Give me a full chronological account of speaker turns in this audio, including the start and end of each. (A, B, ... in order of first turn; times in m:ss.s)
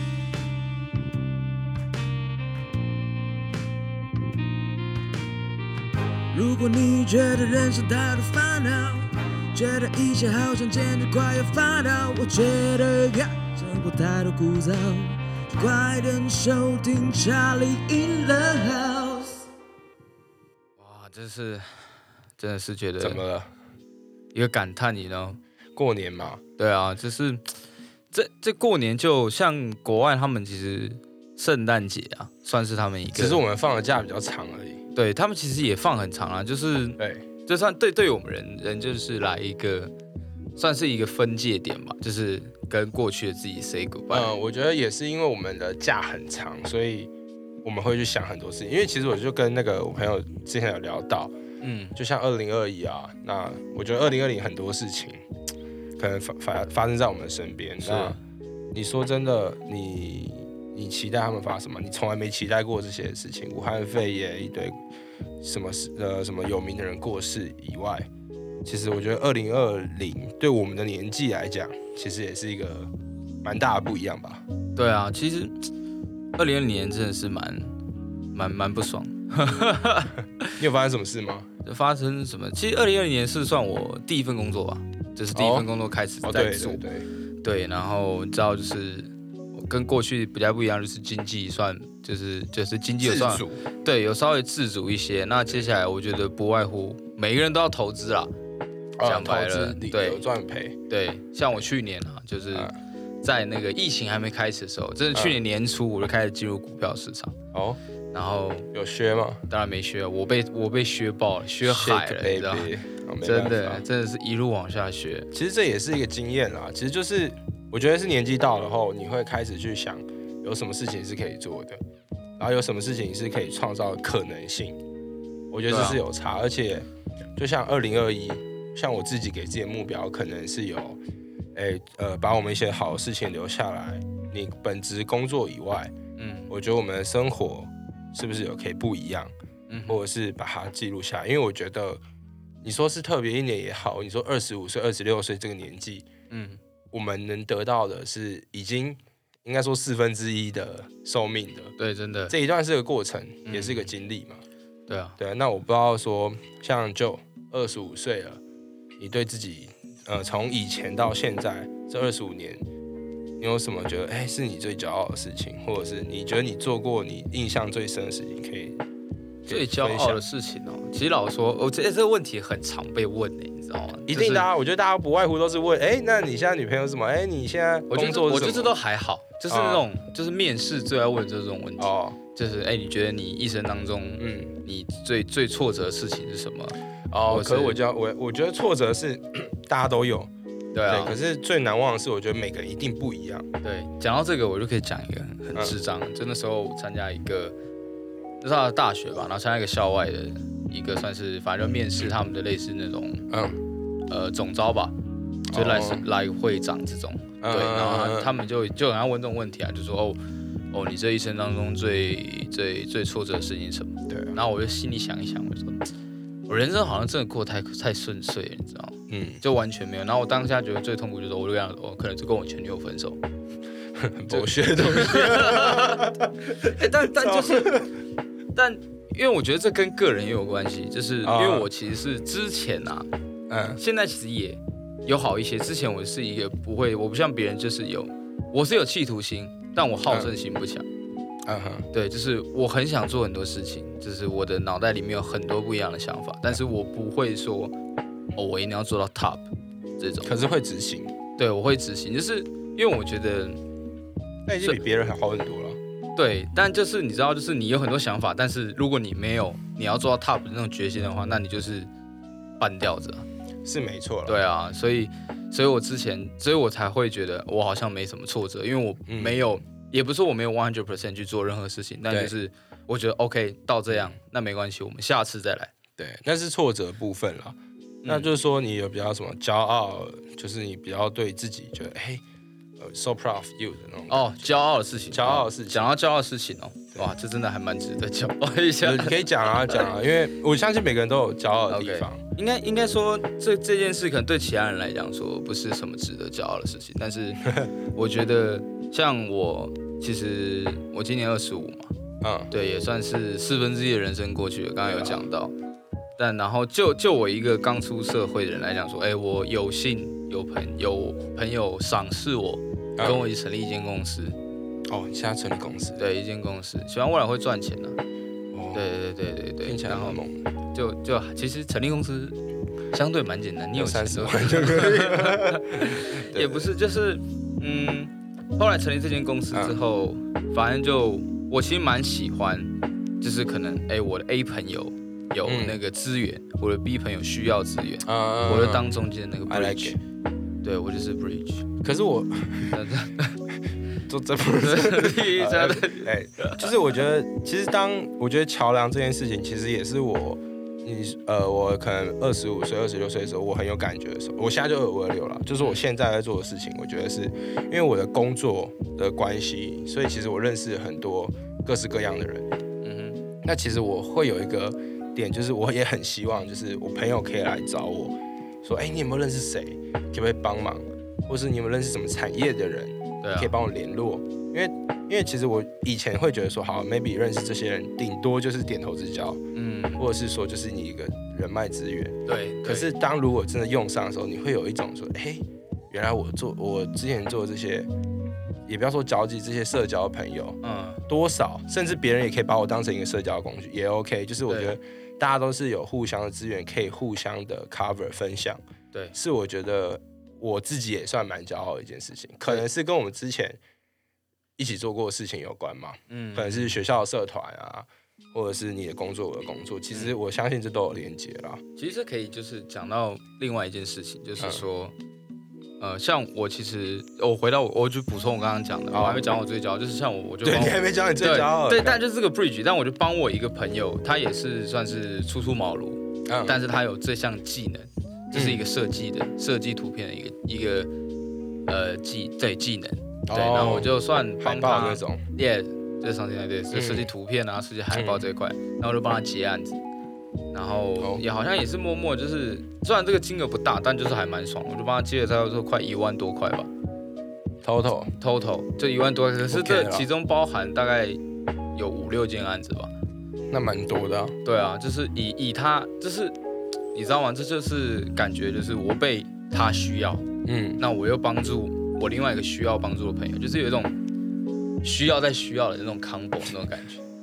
0:06.3-0:19.4 A
0:20.8-0:21.7 B
0:22.4-0:23.2 B
0:23.0-0:23.5 C
0:24.3-0:25.4 B
0:25.8-0:26.4 C
0:26.6-0:27.5 B
0:28.1-0:33.4 B
0:33.1-0:34.8 C
0:35.0-0:39.9 B
0:37.0-0:37.3 C
0:40.6-0:44.3 B
0:44.1-0:47.1 C
0:47.6-0:51.3 C
0:51.6-0:52.0 B
0:52.0-0:55.2 C
0:56.0-0:58.2 C
0:57.8-0:58.2 B
0:58.7-1:04.8 C
1:05.4-1:08.1 C
1:08.6-1:12.9 C
1:13.4-1:14.4 C
1:14.8-1:15.7 B
1:16.4-1:17.7 B
1:18.3-1:20.6 B
1:20.6-1:21.5 C
1:21.6-1:26.8 B
1:25.3-1:25.7 C
1:26.2-1:27.1 C
1:27.4-1:38.3 B
1:33.0-1:33.6 C
1:39.0-1:40.8 C
1:39.0-1:40.2 B
1:40.9-1:42.7 B
1:43.2-1:47.4 B
1:45.1-1:45.4 C
1:47.5-1:47.8 C
1:48.1-1:48.7 B
1:48.7-1:49.4 C
1:49.5-1:52.7 B
1:51.6-1:53.8 C
1:53.2-1:55.3 B
1:55.3-2:01.8 C
2:02.4-2:04.8 C
2:05.5-2:11.0 C
2:05.7-2:06.0 B
2:11.6-2:15.9 C
2:16.2-2:16.5 B
2:16.5-2:19.3 C
2:19.7-2:20.0 B
2:19.9-2:22.0 C
2:22.6-2:26.1 C
2:26.3-2:26.6 B
2:26.9-2:31.8 C
2:31.8-2:32.4 B
2:32.3-2:34.4 C
2:33.5-2:33.9 B
2:34.9-2:35.2 B
2:35.2-2:38.4 C
2:39.0-2:42.6 C
2:43.4-2:48.8 C
2:49.5-2:50.2 C
2:49.5-2:54.5 B
2:54.1-2:58.7 C
2:57.9-3:06.8 B
2:59.5-2:59.9 C
3:01.8-3:02.2 C
3:04.2-3:04.5 C
3:07.1-3:10.3 C
3:07.3-3:07.8 B
3:10.7-3:11.1 B
3:10.9-3:13.5 C
3:13.6-3:17.6 B
3:18.4-3:23.3 B
3:23.3-3:23.6 C
3:24.1-3:24.9 B
3:25.5-3:26.0 C
3:25.5-3:30.2 B
3:27.4-3:28.3 C
3:30.7-3:35.8 B
3:34.1-3:34.4 C
3:36.5-3:43.2 B
3:39.1-3:39.4 C
3:44.0-3:47.9 C
3:44.3-3:47.9 B
3:48.6-3:53.1 B
3:51.2-3:51.7 C
3:53.5-3:53.8 C
3:53.8-4:00.9 B
4:01.5-4:01.9 C
4:01.9-4:07.7 B
4:08.4-4:09.5 B
4:10.0-4:10.3 B
4:10.2-4:11.1 C
4:11.4-4:13.6 B
4:14.5-4:15.8 C
4:16.2-4:21.9 B
4:22.6-4:23.3 B
4:23.6-4:24.4 C
4:24.3-4:35.7 B
4:29.1-4:29.4 C
4:36.0-4:42.2 C
4:38.0-4:38.3 B
4:42.8-4:44.4 C
4:44.1-4:49.9 B
4:45.1-4:45.9 C
4:48.8-4:52.2 C
4:51.7-5:01.9 B
5:02.2-5:02.5 C
5:02.5-5:05.5 B
5:04.9-5:05.3 C
5:06.2-5:14.4 B
5:13.0-5:13.3 C
5:14.9-5:16.0 C
5:16.0-5:18.0 B
5:18.5-5:18.8 C
5:18.7-5:20.2 B
5:19.6-5:20.4 C
5:20.7-5:22.4 B
5:22.9-5:40.0 B
5:23.8-5:26.7 C
5:29.5-5:29.8 C
5:35.5-5:35.8 C
5:38.0-5:38.9 C
5:39.5-5:40.0 C
5:40.6-5:41.7 B
5:41.8-5:42.8 C
5:42.7-5:43.4 B
5:44.1-6:02.5 C
5:44.6-5:46.7 B
6:02.8-6:03.2 B
6:03.4-6:19.4 C
6:13.2-6:13.5 B
6:19.5-6:20.0 B
6:20.0-6:27.9 C
6:22.3-6:22.9 B
6:28.7-6:38.6 C
6:30.6-6:31.0 B
6:34.5-6:34.8 B
6:39.1-6:43.6 C
6:44.6-6:51.6 C
6:46.1-6:46.8 B
6:51.8-6:54.9 B
6:54.4-6:54.6 C
6:55.8-7:10.9 B
6:58.9-6:59.3 C
7:00.4-7:02.0 C
7:06.3-7:06.6 C
7:08.3-7:08.7 C
7:11.7-7:19.8 B
7:13.3-7:15.2 C
7:16.7-7:17.1 C
7:17.9-7:18.3 C
7:20.5-7:26.7 B
7:27.6-7:28.1 C
7:28.2-7:31.2 B
7:29.5-7:30.1 C
7:31.8-7:32.9 B
7:33.5-7:34.4 C
7:34.4-7:36.4 B
7:36.9-7:40.3 B
7:40.4-7:40.8 C
7:40.8-7:44.0 B
7:44.8-7:47.0 B